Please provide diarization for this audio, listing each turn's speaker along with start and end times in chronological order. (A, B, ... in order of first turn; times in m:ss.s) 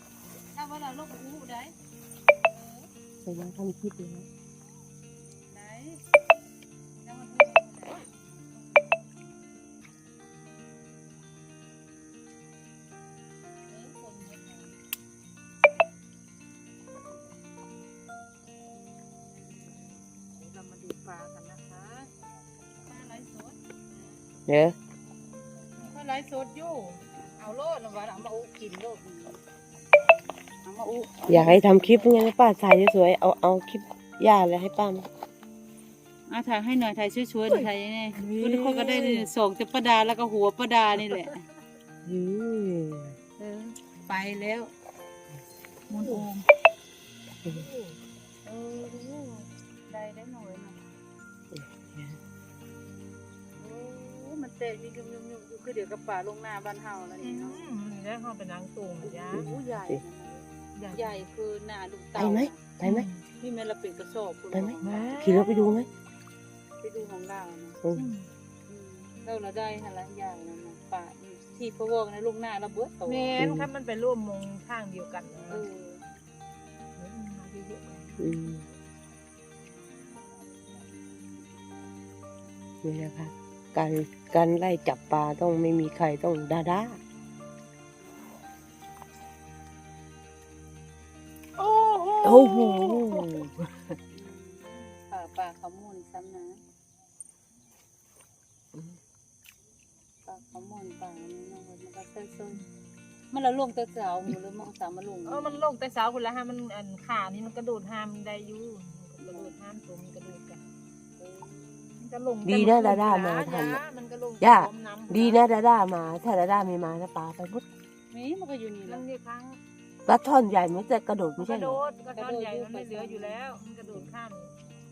0:00.5-0:01.7 A
0:03.2-0:04.3 B
0:05.5-0:06.0 A
0:07.0-0:08.8 A
0:13.7-0:14.7 A
0:20.3-0:22.1 C
0:23.0-0:23.3 C
0:24.5-0:24.8 B
0:25.8-0:27.9 C
0:27.6-0:29.4 A
0:30.6-0:32.1 A
0:31.3-0:35.1 B
0:36.3-0:41.4 A
0:38.2-0:39.3 B
0:42.0-0:43.1 B
0:43.4-0:44.7 A
0:45.9-0:46.4 A
0:47.4-0:48.0 C
0:48.4-0:50.8 A
0:51.5-0:52.2 B
0:53.6-0:57.7 A
0:57.2-0:59.5 C
0:59.1-1:02.6 A
0:59.3-1:00.0 B
1:00.7-1:01.3 C
1:02.2-1:03.1 B
1:02.8-1:03.2 C
1:03.4-1:05.9 A
1:04.5-1:05.9 B
1:04.8-1:05.6 C
1:06.8-1:07.8 A
1:07.9-1:08.3 C
1:08.7-1:13.3 A
1:13.0-1:15.6 C
1:13.4-1:13.7 B
1:15.5-1:16.0 A
1:17.0-1:18.6 C
1:18.2-1:18.6 B
1:22.8-1:27.0 B
1:28.0-1:28.3 A
1:31.6-1:33.4 C
1:32.2-1:33.5 B
1:34.1-1:36.6 A
1:40.2-1:42.6 A
1:43.3-1:45.6 A
1:45.2-1:50.6 C
1:49.2-1:49.5 A
1:51.2-1:51.9 A
1:52.0-1:55.4 C
1:52.4-1:53.8 B
1:54.4-1:57.6 B
1:58.1-1:59.0 A
1:58.8-1:59.6 C
2:00.0-2:01.8 B
2:01.4-2:04.5 C
2:02.1-2:03.4 A